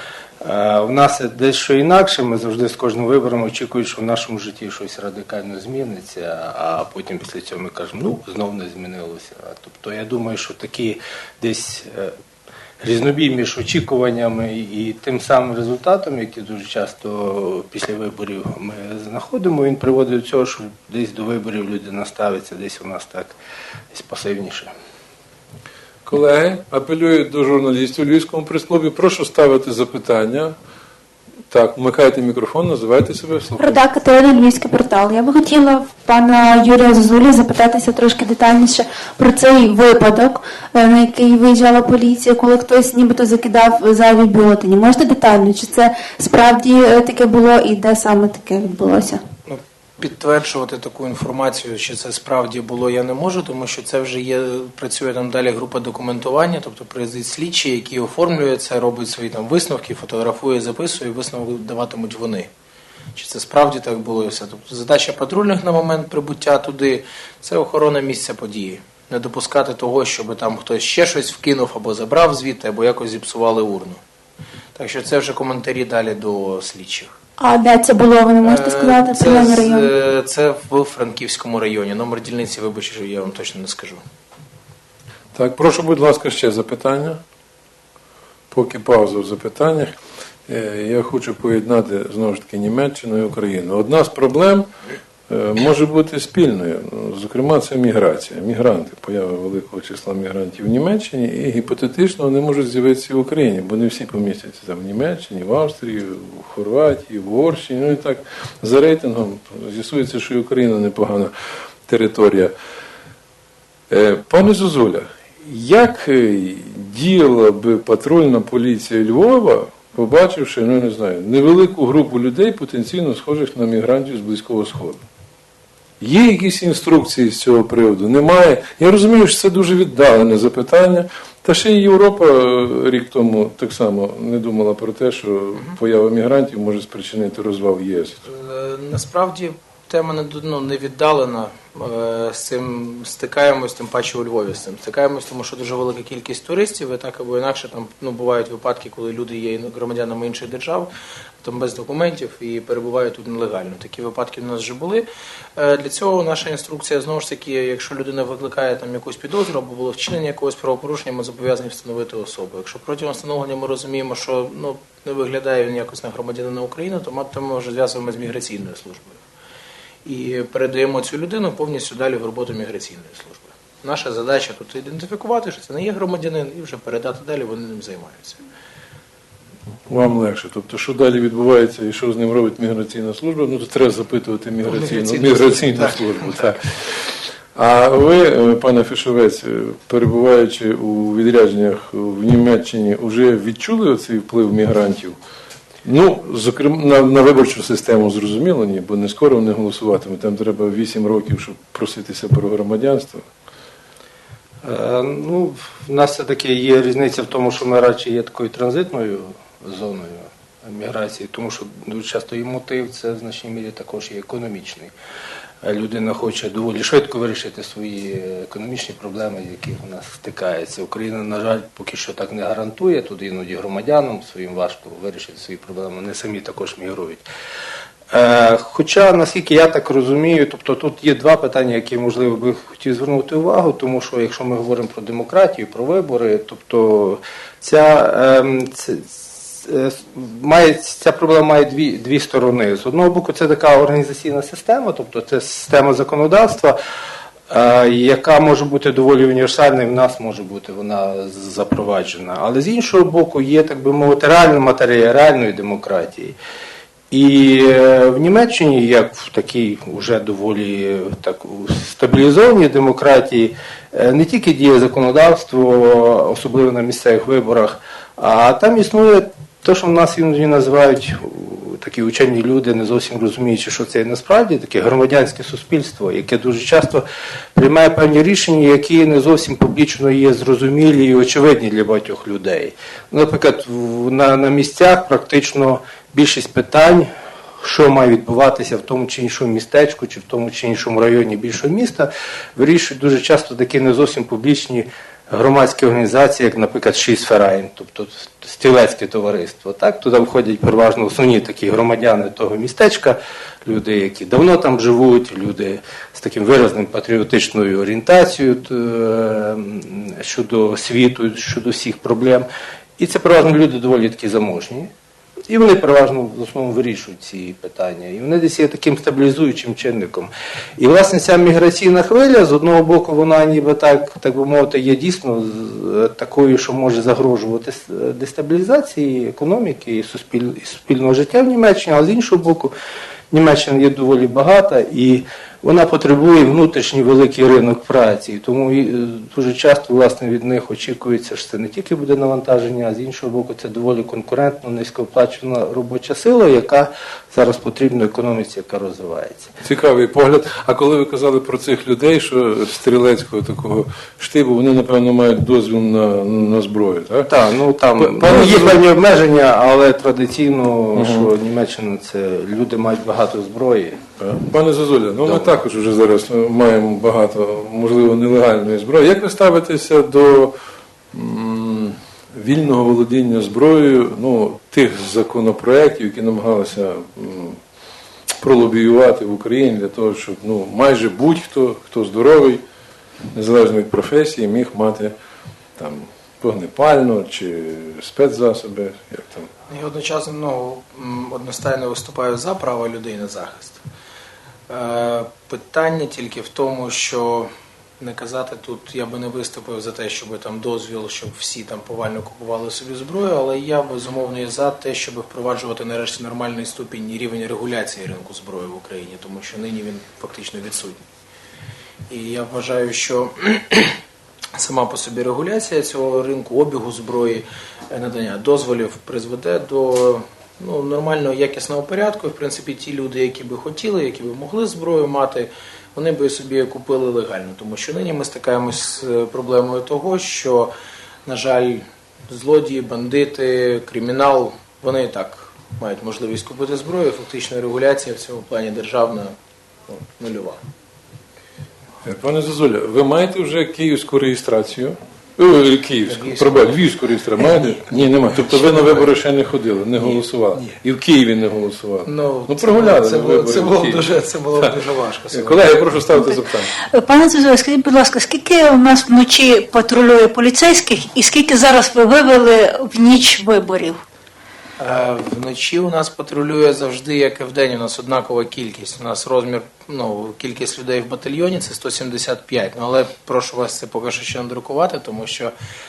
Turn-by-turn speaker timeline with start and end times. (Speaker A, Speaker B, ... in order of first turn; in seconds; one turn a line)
Speaker A: 0.4-12.1
Speaker A: 12.8-23.4
Speaker A: 23.9-24.7
Speaker B: 26.1-30.5
Speaker B: 31.5-33.8
Speaker C: 33.6-49.2
Speaker D: 49.5-62.5
Speaker D: 63.1-74.0
Speaker D: 74.8-77.1
Speaker C: 77.4-79.9
Speaker D: 78.4-84.0
Speaker B: 85.3-87.2
Speaker B: 88.5-90.0
Speaker B: 90.5-94.7
Speaker B: 95.3-111.3
Speaker B: 111.9-112.5
Speaker B: 113.9-125.0
Speaker B: 126.0-138.3
Speaker D: 138.3-169.2
Speaker D: 170.1-178.4
Speaker B: 179.9-186.6
Speaker D: 184.7-186.5
Speaker B: 187.6-195.2
Speaker B: 195.8-203.2
Speaker A: 204.6-214.9
Speaker A: 215.6-227.2
Speaker A: 228.1-246.8
Speaker A: 247.5-256.4
Speaker A: 257.1-277.0
Speaker A: 277.6-287.1
Speaker A: 287.6-312.5
Speaker A: 313.0-314.9
Speaker A: 315.5-332.7
Speaker A: 333.3-349.5
Speaker B: 349.6-357.3
Speaker A: 357.3-364.0
Speaker B: 358.0-358.9
Speaker B: 360.9-361.3
Speaker B: 364.2-370.6
Speaker B: 371.1-377.6
Speaker B: 378.4-382.6
Speaker B: 383.3-385.1
Speaker B: 385.8-389.5
Speaker D: 389.7-393.8
Speaker D: 394.7-411.1
Speaker D: 412.1-414.0
Speaker D: 414.6-430.7
Speaker D: 431.3-439.3
Speaker D: 440.2-440.6
Speaker B: 442.0-454.1
Speaker D: 446.1-446.8
Speaker D: 447.4-449.1
Speaker D: 450.0-450.8
Speaker D: 452.1-455.8
Speaker B: 455.3-456.7
Speaker E: 456.9-464.0
Speaker D: 464.8-475.5